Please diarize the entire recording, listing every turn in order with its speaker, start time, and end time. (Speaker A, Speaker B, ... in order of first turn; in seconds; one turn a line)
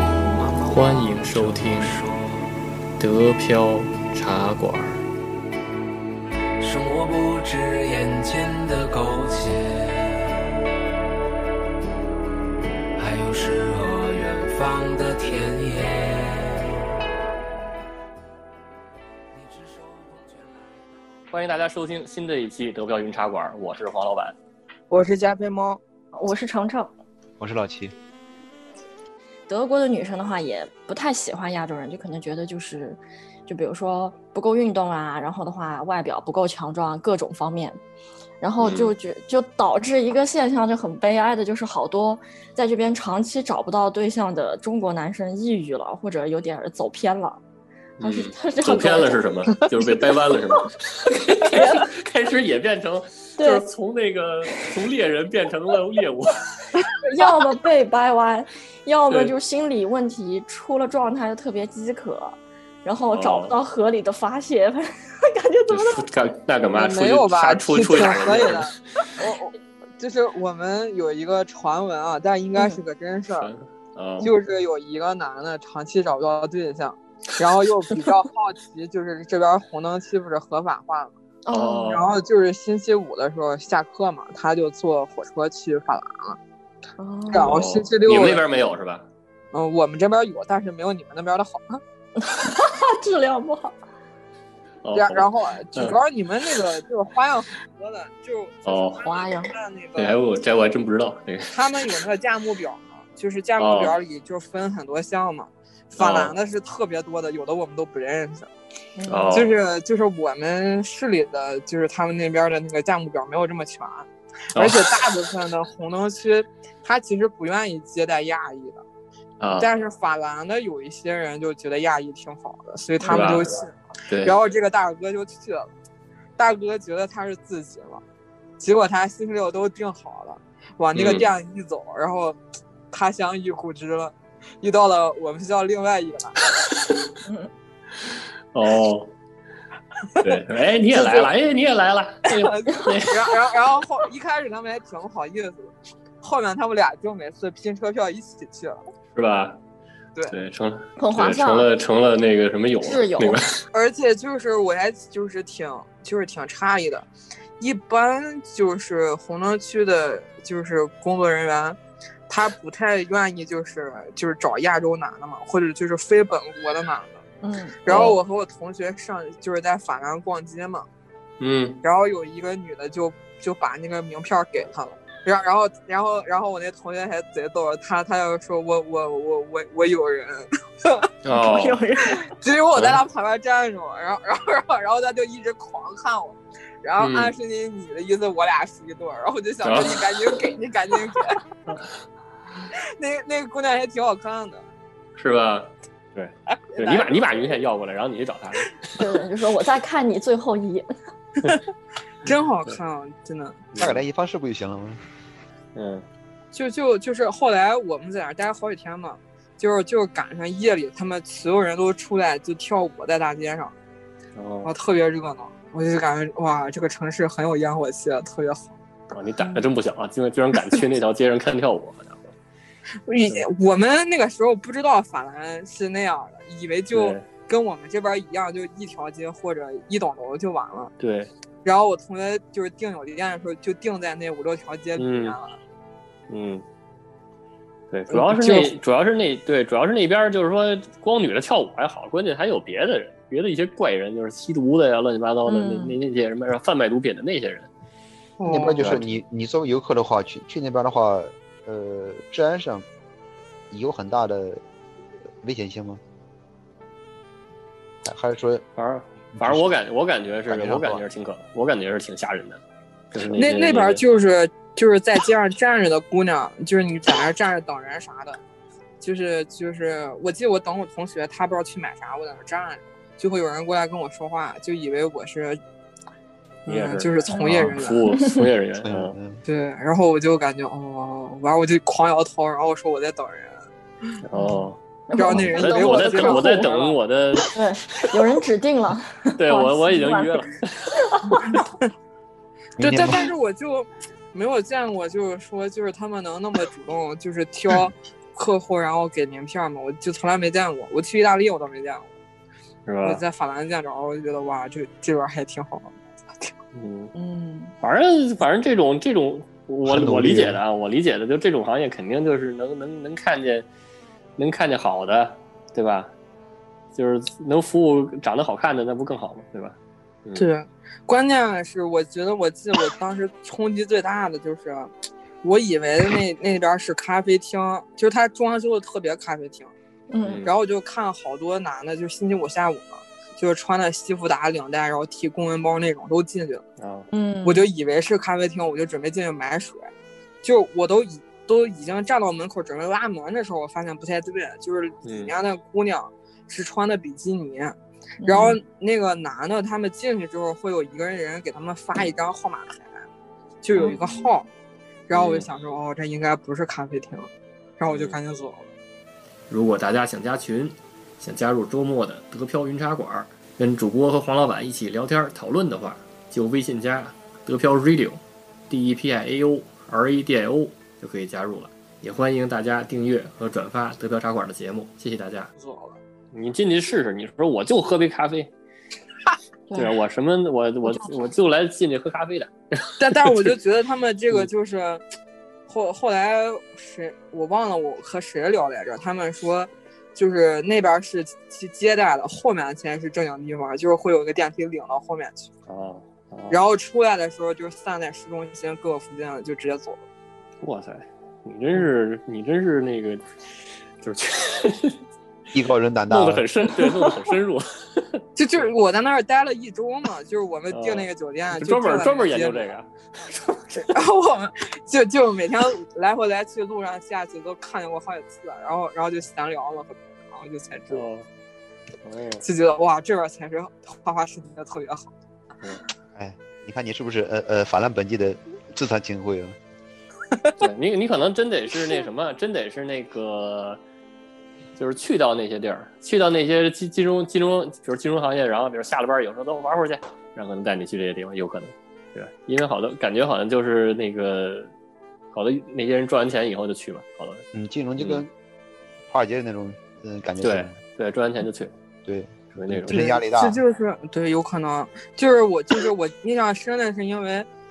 Speaker A: 0.4-2.5
Speaker B: 0.7-2.0
Speaker B: 3.0-5.0
Speaker A: 6.6-10.3
Speaker A: 13.0-16.7
Speaker A: 19.3-20.8
Speaker B: 21.3-24.4
Speaker C: 24.9-25.8
Speaker D: 26.1-26.9
Speaker E: 27.4-27.9
Speaker D: 29.5-37.8
Speaker D: 38.4-47.4
Speaker B: 38.6-38.9
Speaker B: 48.0-56.4
Speaker D: 48.0-49.2
Speaker D: 51.5-51.9
Speaker D: 53.4-53.6
Speaker D: 57.1-66.0
Speaker B: 63.1-63.6
Speaker B: 65.7-68.7
Speaker C: 66.7-73.5
Speaker D: 72.5-72.8
Speaker B: 73.3-74.3
Speaker C: 74.2-81.1
Speaker D: 81.5-82.0
Speaker B: 81.5-82.1
Speaker C: 81.9-86.4
Speaker D: 87.0-87.5
Speaker C: 87.3-88.5
Speaker B: 87.4-89.1
Speaker C: 89.5-91.8
Speaker D: 92.2-93.8
Speaker B: 94.8-96.0
Speaker C: 94.9-100.2
Speaker B: 98.7-99.0
Speaker D: 99.0-99.5
Speaker B: 100.0-101.6
Speaker C: 101.5-108.5
Speaker B: 103.6-104.0
Speaker B: 106.0-106.3
Speaker D: 109.0-109.4
Speaker B: 109.1-109.5
Speaker C: 109.3-118.8
Speaker B: 114.5-114.9
Speaker B: 119.4-119.7
Speaker C: 119.6-125.7
Speaker D: 123.0-123.4
Speaker B: 123.1-123.6
Speaker B: 124.1-124.4
Speaker C: 126.4-128.0
Speaker C: 128.6-132.4
Speaker B: 130.9-131.3
Speaker C: 132.9-136.3
Speaker B: 138.5-139.1
Speaker B: 140.2-143.3
Speaker C: 140.9-141.3
Speaker C: 143.1-148.8
Speaker B: 149.1-149.6
Speaker B: 150.3-153.6
Speaker D: 151.0-151.7
Speaker D: 152.8-153.4
Speaker C: 153.7-157.1
Speaker C: 157.6-167.2
Speaker D: 167.4-167.8
Speaker C: 167.8-170.9
Speaker B: 167.9-168.2
Speaker B: 171.4-171.8
Speaker C: 171.8-181.1
Speaker B: 181.2-181.8
Speaker D: 181.3-182.2
Speaker C: 182.3-191.4
Speaker B: 182.8-183.0
Speaker B: 187.0-187.3
Speaker B: 189.6-190.3
Speaker C: 193.0-194.6
Speaker B: 195.2-198.8
Speaker C: 196.5-197.6
Speaker D: 199.0-200.9
Speaker C: 202.2-203.6
Speaker B: 203.7-204.0
Speaker E: 203.8-205.0
Speaker B: 205.8-206.1
Speaker C: 206.5-213.7
Speaker B: 214.4-214.7
Speaker C: 214.7-218.7
Speaker B: 219.1-222.3
Speaker C: 220.5-220.8
Speaker C: 223.1-230.9
Speaker B: 226.9-227.3
Speaker B: 231.0-231.3
Speaker C: 231.7-235.6
Speaker B: 235.0-235.4
Speaker B: 236.3-236.7
Speaker B: 237.9-247.7
Speaker C: 238.1-238.8
Speaker D: 245.4-246.0
Speaker C: 248.4-249.0
Speaker E: 248.5-252.9
Speaker B: 248.8-249.1
Speaker E: 253.7-254.6
Speaker E: 255.4-256.0
Speaker E: 258.0-258.6
Speaker B: 258.8-262.6
Speaker E: 259.4-259.8
Speaker E: 260.5-261.0
Speaker B: 263.1-264.0
Speaker C: 263.3-268.4
Speaker C: 269.0-275.6
Speaker C: 276.6-278.1
Speaker B: 276.7-279.1
Speaker E: 278.8-279.4
Speaker C: 279.5-283.6
Speaker B: 284.2-284.8
Speaker D: 285.1-286.9
Speaker C: 285.2-287.0
Speaker B: 285.5-287.5
Speaker D: 287.5-290.4
Speaker B: 289.4-290.9
Speaker D: 291.1-291.5
Speaker E: 292.8-293.2
Speaker C: 292.8-302.1
Speaker B: 302.9-303.2
Speaker C: 303.0-306.5
Speaker B: 306.8-307.1
Speaker D: 307.1-307.7
Speaker B: 307.8-313.7
Speaker E: 309.9-310.6
Speaker B: 314.4-316.1
Speaker B: 316.9-320.5
Speaker C: 320.4-324.9
Speaker C: 325.4-329.7
Speaker D: 330.1-330.4
Speaker B: 330.2-330.6
Speaker C: 330.4-336.6
Speaker B: 336.8-337.1
Speaker D: 337.1-337.7
Speaker C: 337.4-339.9
Speaker C: 340.4-353.0
Speaker B: 345.1-345.3
Speaker D: 348.2-348.5
Speaker C: 353.6-354.5
Speaker C: 355.1-358.7
Speaker B: 355.1-355.5
Speaker B: 357.9-358.2
Speaker B: 359.5-375.5
Speaker C: 375.6-376.0
Speaker B: 376.3-378.5
Speaker D: 379.7-380.0
Speaker B: 379.8-382.5
Speaker D: 380.9-381.1
Speaker C: 383.0-385.0
Speaker B: 383.0-383.5
Speaker C: 385.7-395.5
Speaker B: 395.7-396.6
Speaker C: 396.5-400.0
Speaker B: 400.6-403.2
Speaker B: 404.0-405.0
Speaker E: 405.5-406.5
Speaker B: 406.1-408.7
Speaker C: 408.4-412.7
Speaker B: 410.7-413.8
Speaker C: 413.7-421.1
Speaker B: 420.9-421.3
Speaker B: 422.0-422.4
Speaker C: 422.4-425.1
Speaker E: 426.2-429.6
Speaker B: 430.6-433.8
Speaker B: 434.8-444.7
Speaker B: 445.3-447.4
Speaker E: 447.5-448.3
Speaker B: 448.0-448.3
Speaker E: 449.1-450.8
Speaker B: 450.4-451.7
Speaker E: 452.1-453.6
Speaker B: 452.5-453.0
Speaker C: 452.9-457.5